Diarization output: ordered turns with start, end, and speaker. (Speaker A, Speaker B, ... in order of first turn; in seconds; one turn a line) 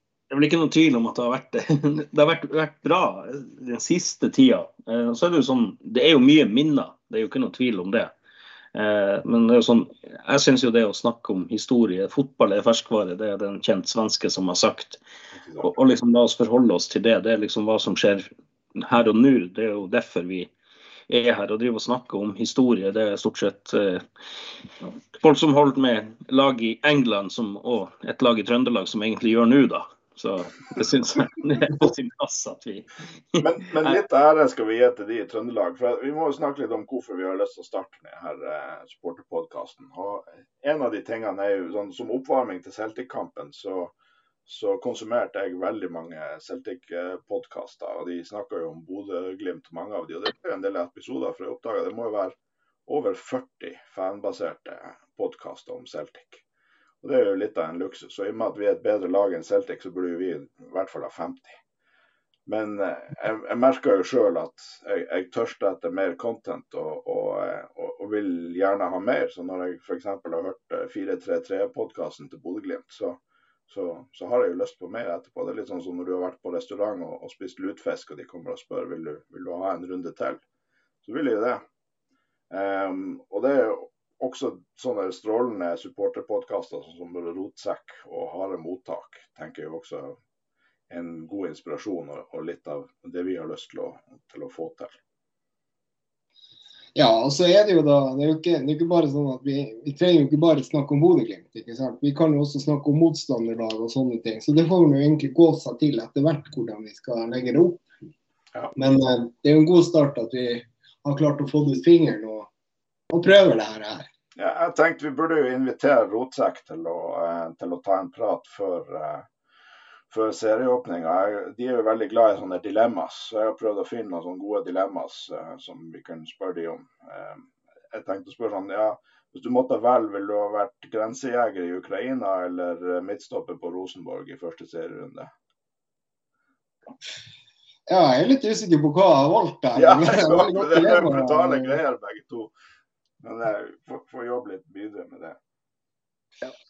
Speaker A: 0.3-8.1
Speaker A: 8.7-15.0
Speaker B: 15.3-15.7
Speaker A: 15.6-20.5
Speaker A: 21.1-24.0
Speaker A: 24.8-34.0
Speaker B: 33.4-43.9
Speaker B: 44.5-52.4
Speaker B: 52.9-56.4
Speaker B: 57.0-61.6
Speaker B: 62.5-80.4
Speaker B: 81.0-81.6
Speaker B: 82.5-90.2
Speaker B: 90.9-95.0
Speaker C: 96.9-107.8
Speaker C: 108.8-112.5
Speaker C: 113.1-114.0
Speaker B: 114.3-119.2
Speaker B: 120.1-135.3
Speaker C: 137.9-141.8
Speaker B: 139.8-142.5
Speaker B: 143.2-145.4